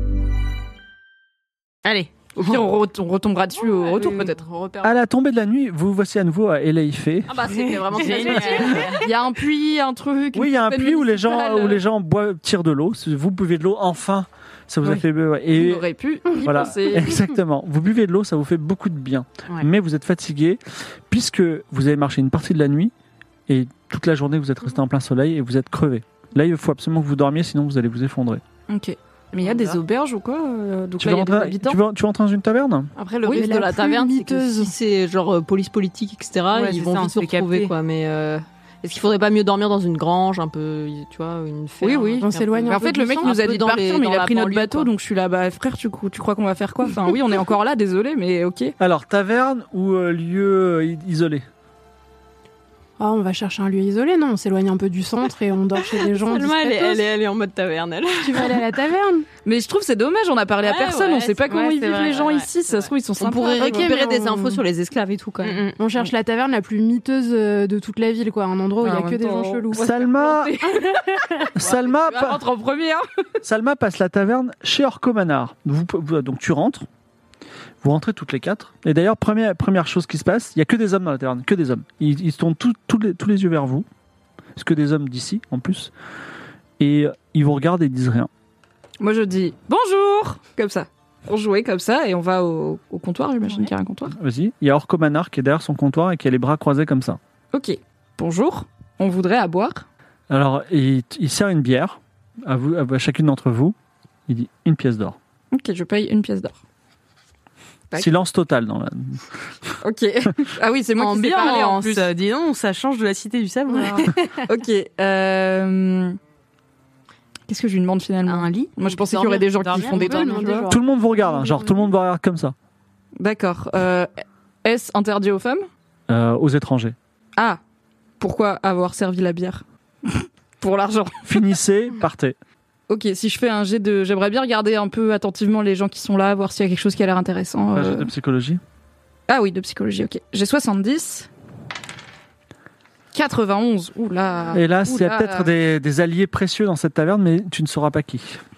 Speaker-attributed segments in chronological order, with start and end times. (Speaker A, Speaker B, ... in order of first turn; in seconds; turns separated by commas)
Speaker A: 1.8-2.6, Speaker B: 2.3-4.4, Speaker C: 3.8-4.9, Speaker D: 4.8-7.4, Speaker C: 7.3-9.1, Speaker A: 7.5-9.0, Speaker B: 8.1-11.8, Speaker D: 10.3-15.9, Speaker B: 14.9-17.2, Speaker D: 16.4-22.9, Speaker E: 16.4-17.1, Speaker D: 23.5-28.4, Speaker B: 28.7-31.8, Speaker A: 29.4-29.8, Speaker D: 31.0-32.9, Speaker C: 33.0-44.9, Speaker E: 33.3-34.7, Speaker A: 36.5-37.7, Speaker B: 41.8-48.7, Speaker E: 42.2-43.3, Speaker D: 48.8-51.5, Speaker E: 53.0-57.1, Speaker C: 56.0-58.6, Speaker E: 58.2-59.3, Speaker B: 59.4-64.0, Speaker C: 60.6-65.7, Speaker A: 61.5-62.0, Speaker E: 63.5-64.6, Speaker A: 65.4-65.8, Speaker E: 65.8-69.8, Speaker B: 68.8-73.0, Speaker D: 69.7-70.5, Speaker D: 71.6-72.4, Speaker D: 73.4-76.9, Speaker D: 77.8-83.8, Speaker D: 84.5-85.9, Speaker D: 86.8-88.3, Speaker B: 89.0-94.1, Speaker D: 94.1-97.2, Speaker B: 97.5-99.8, Speaker D: 100.3-103.7, Speaker D: 104.3-105.2, Speaker B: 105.5-106.5, Speaker D: 107.9-109.7, Speaker B: 109.8-112.1, Speaker A: 110.9-114.4, Speaker B: 114.4-116.2, Speaker B: 117.5-120.7, Speaker A: 118.2-120.7, Speaker E: 119.8-120.8, Speaker D: 120.7-122.5, Speaker B: 123.2-124.1, Speaker B: 124.6-125.7, Speaker D: 126.1-127.0, Speaker B: 128.2-131.4, Speaker D: 131.3-132.4, Speaker B: 132.9-138.1, Speaker D: 137.7-138.6, Speaker B: 139.3-141.3, Speaker B: 143.1-145.5, Speaker D: 144.5-148.4